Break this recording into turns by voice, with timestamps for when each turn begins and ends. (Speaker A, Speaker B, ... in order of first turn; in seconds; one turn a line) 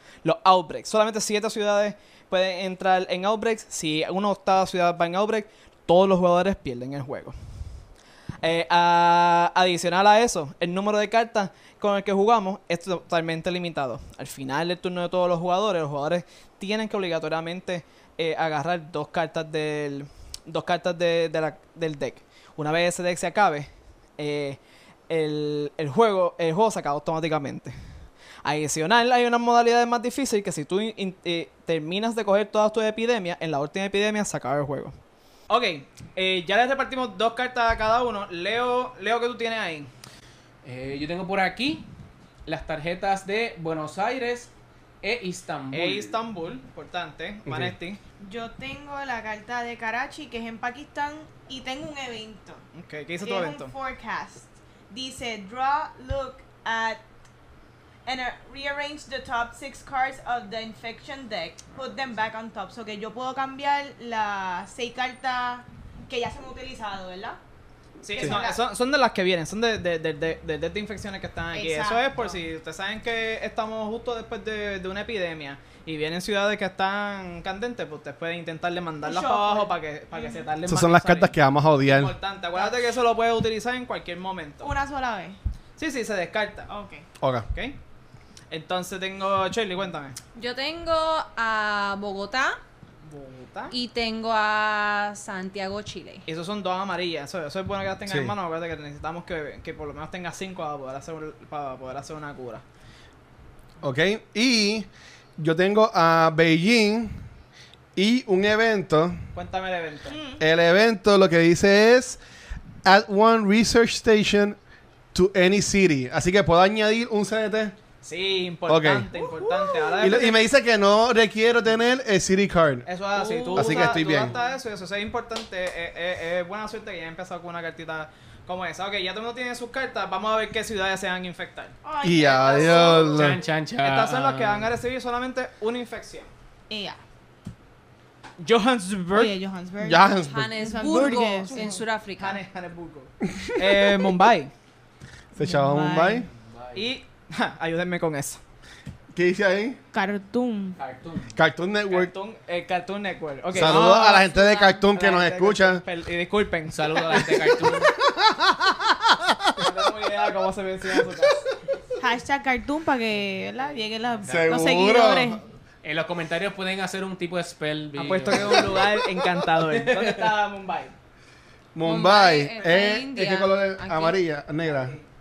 Speaker A: 0.2-7.3
Speaker A: 8.4-27.7
Speaker A: 28.4-34.9
Speaker A: 35.5-39.9
Speaker B: 40.6-41.8
Speaker B: 42.5-44.5
Speaker B: 45.0-46.1
Speaker A: 45.7-48.0
Speaker C: 47.5-47.7
Speaker D: 48.2-52.6
Speaker A: 52.7-53.7
Speaker D: 53.2-57.0
Speaker D: 58.0-67.4
Speaker A: 68.0-84.7
Speaker D: 68.1-68.6
Speaker D: 71.5-72.4
Speaker D: 79.0-80.5
Speaker C: 80.7-82.1
Speaker D: 82.5-82.8
Speaker D: 84.6-85.4
Speaker A: 85.8-86.7
Speaker D: 86.7-87.0
Speaker C: 87.2-87.5
Speaker A: 87.5-87.8
Speaker A: 88.5-90.2
Speaker E: 90.3-92.6
Speaker A: 93.0-93.7
Speaker E: 93.7-96.2
Speaker A: 96.2-102.6
Speaker C: 98.0-98.3
Speaker C: 103.8-107.2
Speaker C: 108.0-109.2
Speaker A: 109.3-110.2
Speaker D: 110.1-110.4
Speaker C: 110.4-112.2
Speaker C: 112.8-114.6
Speaker C: 115.1-117.7
Speaker A: 118.0-120.4
Speaker C: 118.7-119.1
Speaker D: 119.4-120.0
Speaker C: 120.0-122.9
Speaker A: 122.8-131.7
Speaker D: 123.1-124.5
Speaker C: 123.5-124.3
Speaker D: 131.8-133.4
Speaker C: 132.0-133.4
Speaker B: 132.9-134.7
Speaker A: 133.8-136.3
Speaker D: 136.7-137.0
Speaker A: 138.4-139.3
Speaker D: 139.1-141.6
Speaker C: 139.8-140.6
Speaker E: 140.1-142.4
Speaker A: 141.5-144.5
Speaker C: 143.3-144.0
Speaker D: 145.3-146.3
Speaker C: 145.3-146.3
Speaker B: 146.3-146.8
Speaker A: 146.7-148.4
Speaker C: 149.1-149.8
Speaker D: 149.9-150.8
Speaker B: 150.8-151.3
Speaker C: 151.3-152.1
Speaker A: 151.9-157.4
Speaker C: 153.5-155.8
Speaker B: 156.7-157.9
Speaker C: 157.3-159.5
Speaker A: 159.6-161.5
Speaker D: 162.0-165.4
Speaker C: 164.2-165.4
Speaker B: 165.8-168.8
Speaker A: 168.0-170.9
Speaker B: 169.7-170.3
Speaker C: 171.7-174.9
Speaker E: 171.8-174.2
Speaker A: 174.6-175.0